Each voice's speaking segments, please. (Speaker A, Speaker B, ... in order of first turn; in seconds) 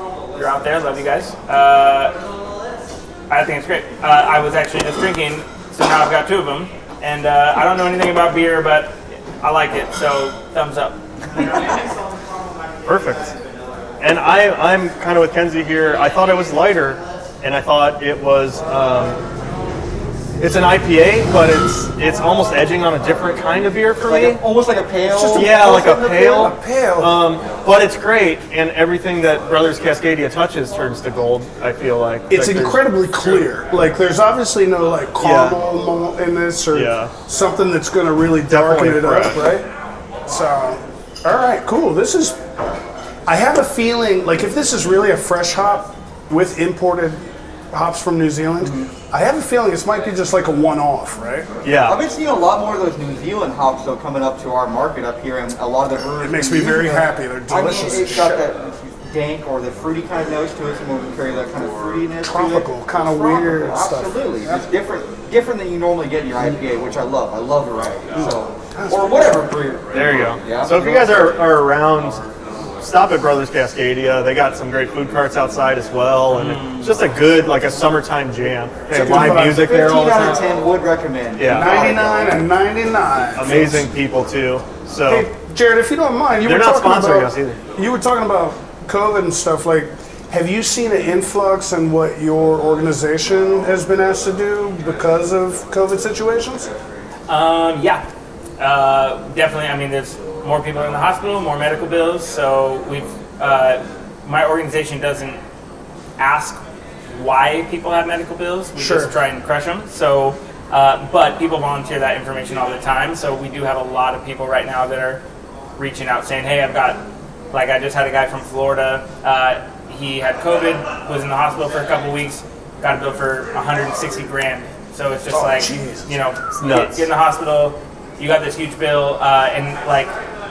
Speaker A: 0.3-2.1, 3.3-11.6, 76.3-77.0, 97.3-98.0, 98.6-105.4, 106.2-115.2, 115.8-117.0, 117.5-130.1
Speaker B: 12.8-13.3, 14.0-19.2, 20.4-24.4, 25.3-32.8, 35.2-35.6, 36.7-37.1, 38.5-39.5, 51.6-52.0, 69.9-72.3, 72.8-80.5, 81.4-82.0, 83.4-85.3, 86.4-87.6, 126.6-127.0
Speaker C: 24.1-25.6, 48.6-48.9, 51.8-71.3, 78.9-82.4
Speaker D: 25.1-27.2, 32.3-39.7, 40.3-42.4, 43.3-51.5, 56.2-58.5, 62.2-64.7, 68.1-69.4, 78.9-79.8, 81.5-83.9, 85.1-96.7, 108.8-109.1, 125.3-126.1